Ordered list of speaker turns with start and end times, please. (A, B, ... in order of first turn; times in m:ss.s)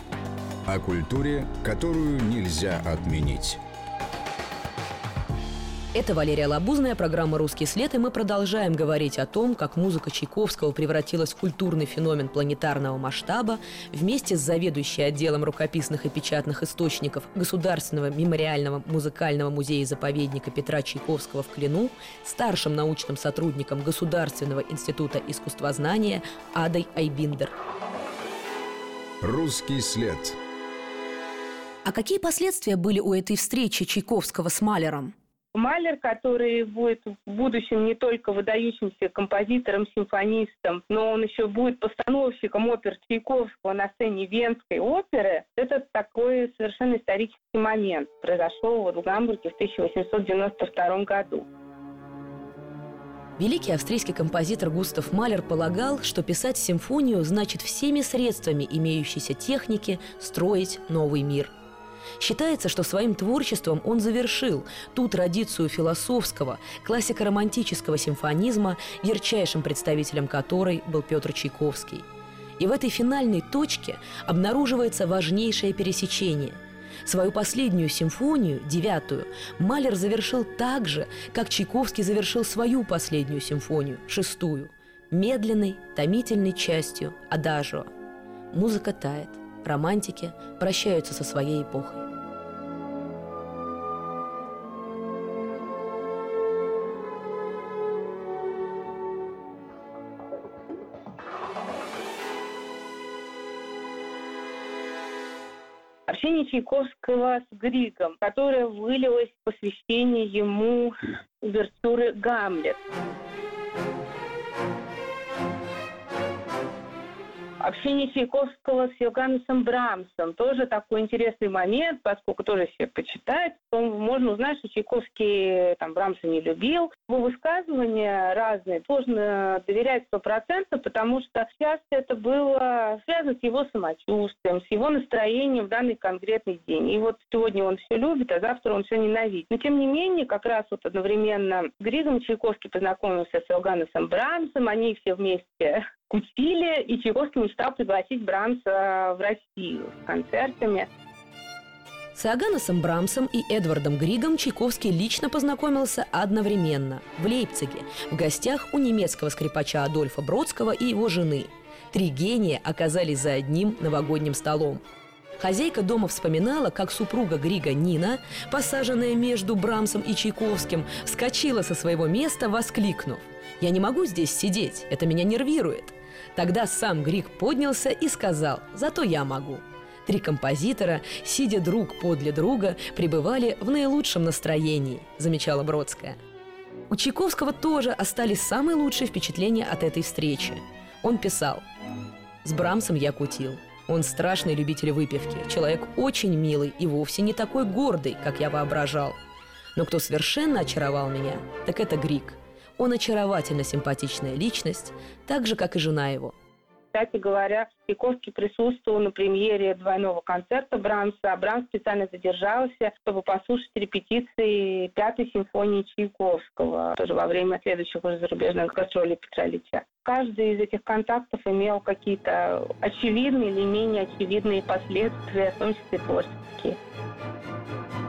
0:00.7-0:03.6 A
0:05.9-0:27.6 B
0:29.2-0:30.4 A
0:31.8-0:35.1 B
0:35.5-0:51.5 C
0:53.4-1:01.5 B
1:02.2-1:12.1 B
1:12.6-1:27.9 B
1:28.5-1:32.1 B
1:46.1-1:52.8 C
1:57.6-2:30.9 C
2:32.2-2:44.8 B
2:45.4-3:06.2 B
3:06.9-3:11.6 B
3:12.4-3:19.2 B
3:19.8-3:26.4 B
3:26.9-3:46.8 C